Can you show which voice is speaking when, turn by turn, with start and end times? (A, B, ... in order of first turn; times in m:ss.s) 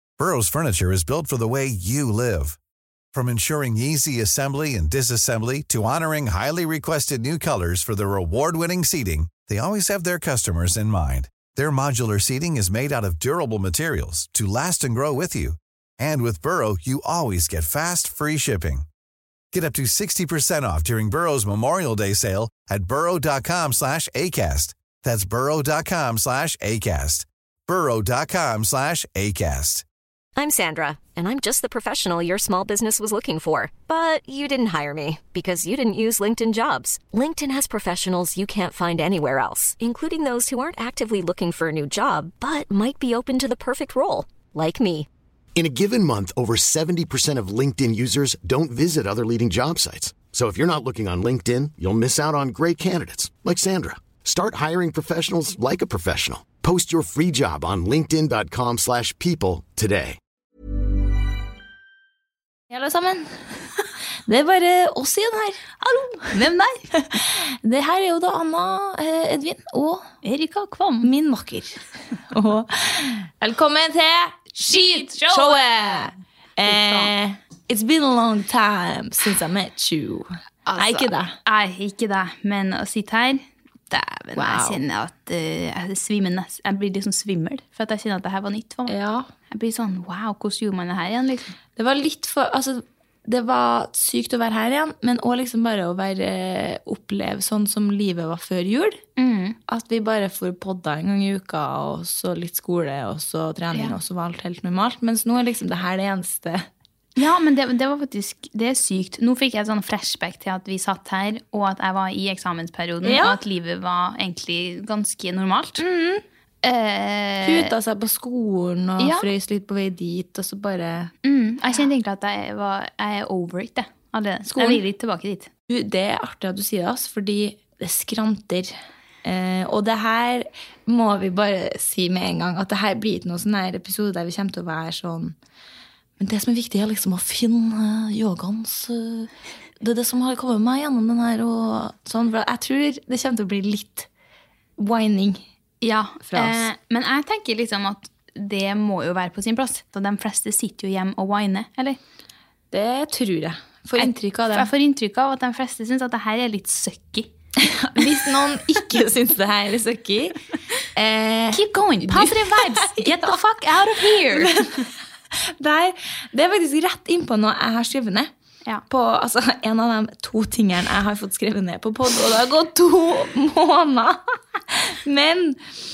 0:00.2-0:02.6 A
0:03.1-0:18.9 A
0:19.5-0:29.8 A
0:30.4-0:45.1 B
0:45.6-1:00.2 C
1:02.7-1:03.4 D
1:04.3-1:06.4 D
1:06.3-1:06.8 E
1:06.9-1:10.1 D
1:10.2-1:11.1 E
1:11.0-1:21.3 D
1:14.6-1:15.6 E
1:16.6-1:17.1 E
1:20.7-1:29.0 E
1:24.4-1:24.8 D
1:28.9-1:29.3 D
1:29.5-1:31.6 E
1:31.8-1:39.0 D
1:39.2-1:39.6 E
1:39.7-1:46.7 D
1:47.2-1:55.8 E
1:53.0-1:53.4 D
1:55.8-1:56.2 D
1:56.6-1:57.7 E
1:57.4-2:01.1 D
1:59.0-1:59.3 E
2:01.2-2:05.5 E
2:04.5-2:04.8 D
2:05.7-2:15.4 D
2:16.2-2:24.1 D
2:24.8-2:25.4 D
2:25.8-2:32.0 E
2:26.2-2:26.7 D
2:32.7-2:34.7 D
2:34.0-2:37.3 E
2:37.6-2:40.4 D
2:40.9-2:43.4 D
2:41.5-2:44.8 E
2:44.2-2:48.3 D
2:48.9-2:55.7 D